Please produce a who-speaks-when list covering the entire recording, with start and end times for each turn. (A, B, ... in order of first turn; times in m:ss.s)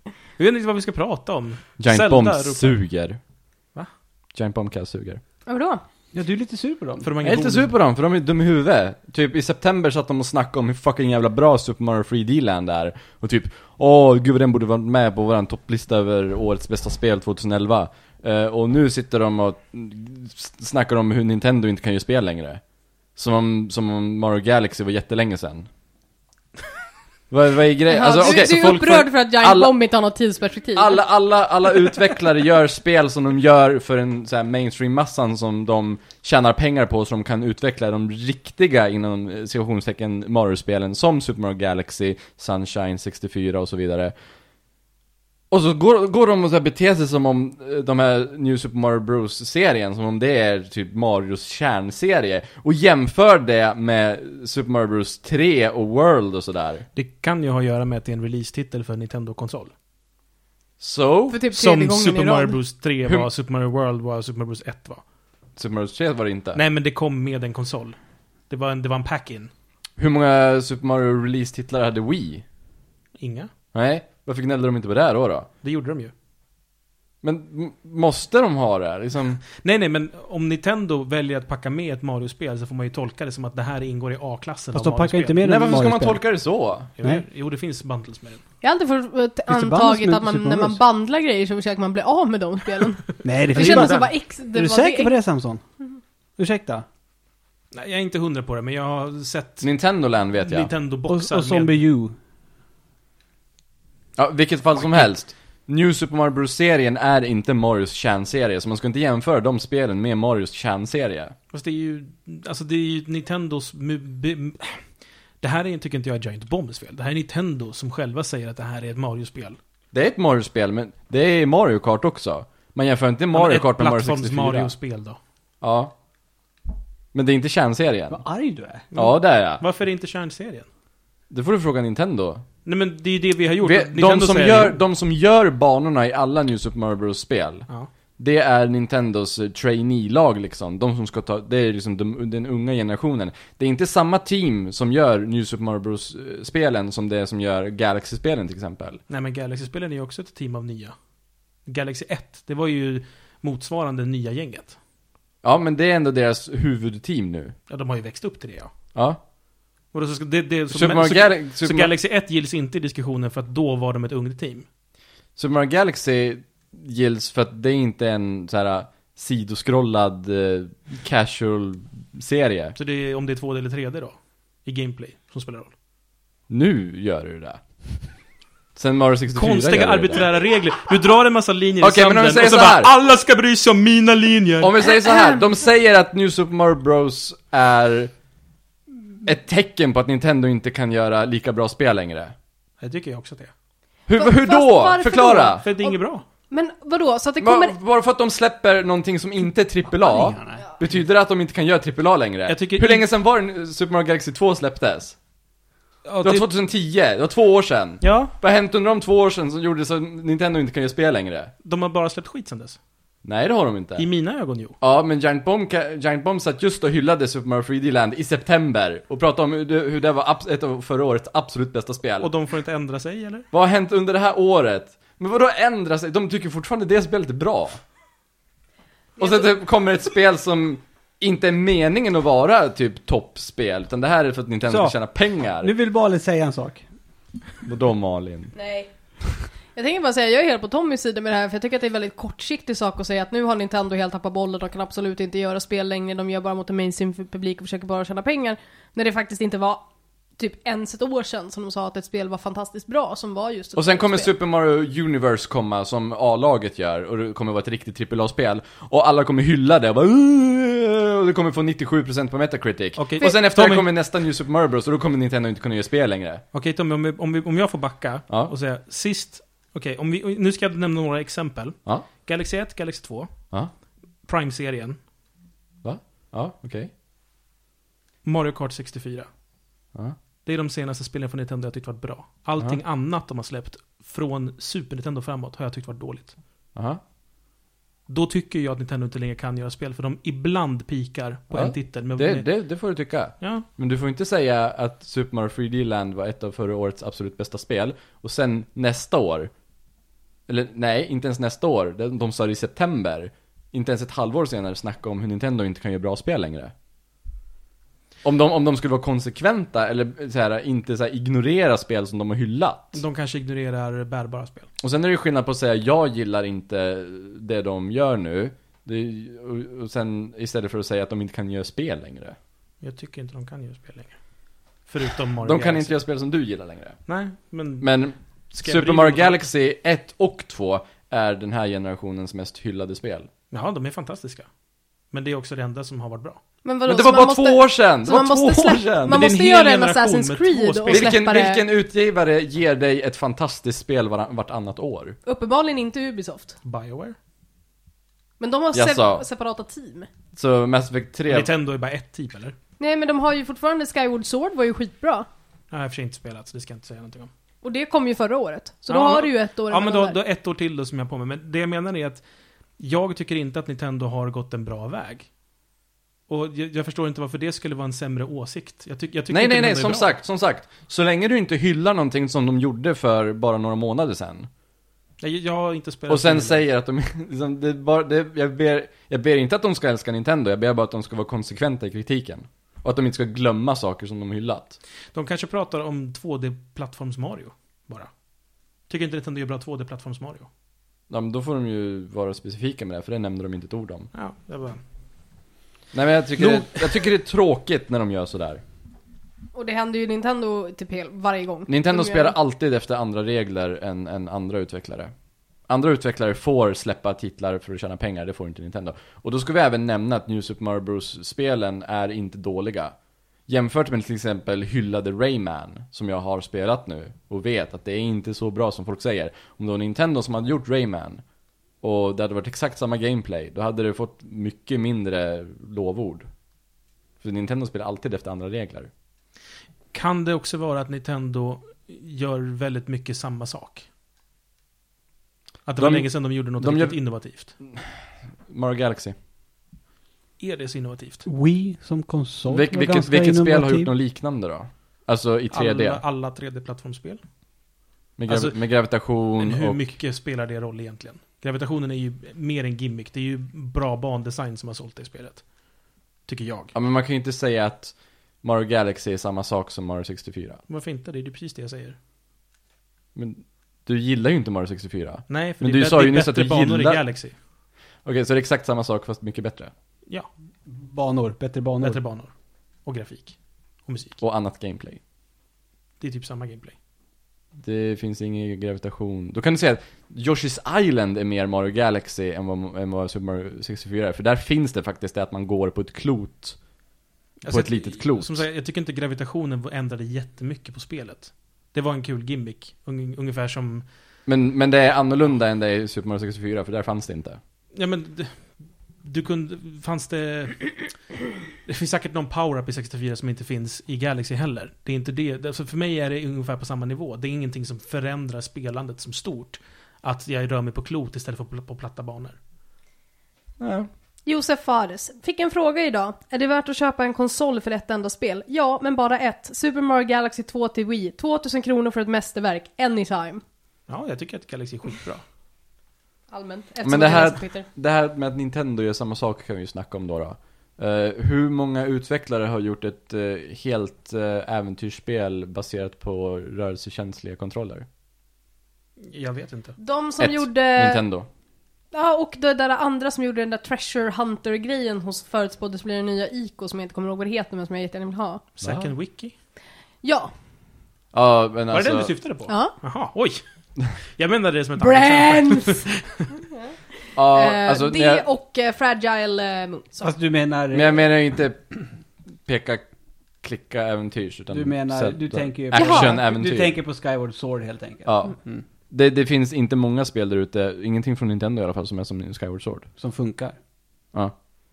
0:00.4-0:02.8 A
0:01.8-0:03.2 B
0:04.3-0:05.2 B
0:05.5-0:05.8 C
0:06.1-0:07.1 D
0:07.0-0:07.7 A
0:07.2-0:22.6 B
0:23.2-0:25.7 B
0:27.3-0:29.7 B
0:27.9-0:31.0 C
0:30.8-0:44.1 B
0:45.5-0:56.8 B
0:56.9-0:59.7 A
1:00.8-1:01.4 B
1:01.3-1:02.6 C
1:01.5-1:05.0 A
1:05.6-1:06.6 B
1:06.5-1:08.0 A
1:08.5-1:09.5 A
1:10.0-1:12.4 B
1:13.2-1:13.5 A
1:13.7-1:15.5 B
1:15.6-1:16.1 A
1:17.2-1:19.4 B
1:19.6-1:25.4 A
1:24.7-1:26.2 D
1:25.4-1:26.9 B
1:27.0-1:28.4 A
1:28.6-1:35.1 C
1:29.5-1:30.8 D
1:33.2-1:35.6 D
1:33.5-1:34.0 A
1:36.4-1:36.8 D
1:37.7-1:39.7 A
1:39.6-1:40.7 B
1:40.4-1:41.8 A
1:41.1-1:42.2 D
1:44.2-1:51.3 B
1:44.8-1:45.1 A
1:51.5-1:54.8 A
1:55.4-1:59.6 A
1:59.9-2:04.7 B
2:03.3-2:05.2 A
2:05.6-2:05.9 B
2:07.1-2:08.2 B
2:08.1-2:08.8 D
2:08.9-2:10.7 A
2:08.9-2:09.6 B
2:11.3-2:12.4 B
2:12.6-2:14.8 A
2:13.6-2:17.7 B
2:18.2-2:29.0 B
2:29.1-2:30.9 A
2:31.6-2:34.8 A
2:35.4-2:37.5 B
2:37.7-2:38.7 A
2:38.9-2:39.2 B
2:39.9-2:44.6 A
2:40.7-2:41.9 B
2:45.4-2:52.8 B
2:52.8-2:55.7 A
2:56.5-2:57.6 B
2:58.8-3:00.3 B
2:59.3-3:04.8 A
3:01.8-3:02.9 B
3:04.6-3:08.1 B
3:05.1-3:05.4 C
3:09.2-3:12.3 B
3:12.8-3:13.5 A
3:14.1-3:15.6 B
3:14.1-3:16.0 C
3:15.6-3:16.2 A
3:16.5-3:17.8 C
3:17.4-3:25.2 B
3:20.0-3:20.6 D
3:22.5-3:23.1 A
3:26.0-3:26.5 A
3:26.2-3:31.5 B
3:28.0-3:28.3 A
3:31.6-3:32.8 A
3:33.2-3:34.0 B
3:34.0-3:34.7 A
3:34.8-3:42.3 B
3:42.2-3:43.4 A
3:43.5-3:47.8 B
3:49.2-3:49.5 C
3:49.2-3:55.7 B
3:54.7-3:55.0 D
3:55.6-3:56.8 D
3:57.6-3:58.5 B
3:58.5-3:58.9 C
3:59.7-4:09.8 C
4:10.4-4:14.3 C
4:13.8-4:26.4 B
4:23.0-4:23.9 A
4:26.5-4:33.3 A
4:34.2-4:35.0 A
4:35.8-4:36.9 B
4:38.2-4:39.3 A
4:40.4-4:46.3 A
4:46.7-4:47.0 B
4:48.1-4:52.5 A
4:51.5-4:59.5 B
4:53.4-4:53.6 A
5:00.5-5:06.7 B
5:08.2-5:13.0 B
5:12.9-5:14.7 A
5:14.8-5:22.4 B
5:22.8-5:24.2 A
5:24.8-5:26.0 A
5:25.4-5:27.0 B
5:27.1-5:28.0 A
5:27.8-5:33.3 B
5:28.5-5:29.4 A
5:33.5-5:34.5 A
5:35.1-5:36.4 A
5:36.6-5:41.6 C
5:36.8-5:39.3 B
5:39.1-5:41.1 A
5:40.9-5:45.2 B
5:45.2-5:46.6 C
5:46.6-5:47.2 A
5:48.4-5:50.1 C
5:48.7-5:49.2 B
5:50.4-5:51.5 B
5:51.3-5:52.5 A
5:52.8-5:55.3 C
5:55.7-5:57.3 A
5:57.6-6:00.2 C
5:58.9-6:02.2 A
6:02.8-6:05.3 A
6:06.3-6:10.1 A
6:09.3-6:14.5 B
6:15.2-6:16.6 A
6:16.1-6:24.8 B
6:25.1-6:28.1 A
6:28.9-6:30.5 A
6:31.1-6:34.1 B
6:34.1-6:34.8 A
6:35.9-6:38.6 B
6:36.4-6:36.9 A
6:39.5-6:42.3 C
6:41.7-6:45.1 B
6:45.7-6:52.9 B
6:53.5-7:01.2 B
7:01.8-7:06.3 B
7:07.2-7:08.9 B
7:09.9-7:13.9 A
7:15.6-7:17.5 A
7:15.8-7:17.0 B
7:17.6-7:19.1 B
7:20.4-7:21.2 A
7:21.2-7:23.9 D
7:22.5-7:26.0 B
7:25.5-7:27.2 A
7:28.2-7:29.8 B
7:28.3-7:35.7 A
7:36.2-7:36.7 A
7:36.7-7:40.6 B
7:40.7-7:42.0 A
7:43.1-7:47.0 B
7:45.3-7:47.3 A
7:48.0-7:49.7 B
7:50.6-7:52.0 D
7:51.8-7:52.3 A
7:52.8-7:54.2 A
7:54.2-7:55.0 B
7:56.0-7:56.8 A
7:57.6-8:06.6 B
8:07.4-8:13.8 A
8:07.4-8:08.4 B
8:14.2-8:17.4 B
8:17.7-8:21.0 A
8:21.6-8:32.4 A
8:33.6-8:33.9 B
8:34.2-8:43.4 C
8:43.9-8:45.2 A
8:46.3-8:47.7 C
8:46.8-8:57.9 B
8:59.0-8:59.8 A
8:59.8-9:01.0 C
9:00.2-9:01.3 B
9:01.9-9:08.4 C
9:08.6-9:09.3 A
9:08.6-9:08.9 B
9:10.0-9:10.3 C
9:11.1-9:12.1 B
9:11.7-9:13.4 A
9:12.5-9:12.7 C
9:14.0-9:16.2 A
9:14.8-9:15.9 C
9:16.5-9:20.1 C
9:17.2-9:18.2 B
9:20.0-9:21.1 D
9:20.7-9:21.7 B
9:22.4-9:22.8 B
9:23.4-9:26.8 B
9:24.5-9:28.6 D
9:25.7-9:26.2 C
9:28.0-9:28.4 B
9:28.9-9:32.9 B
9:33.0-9:33.6 D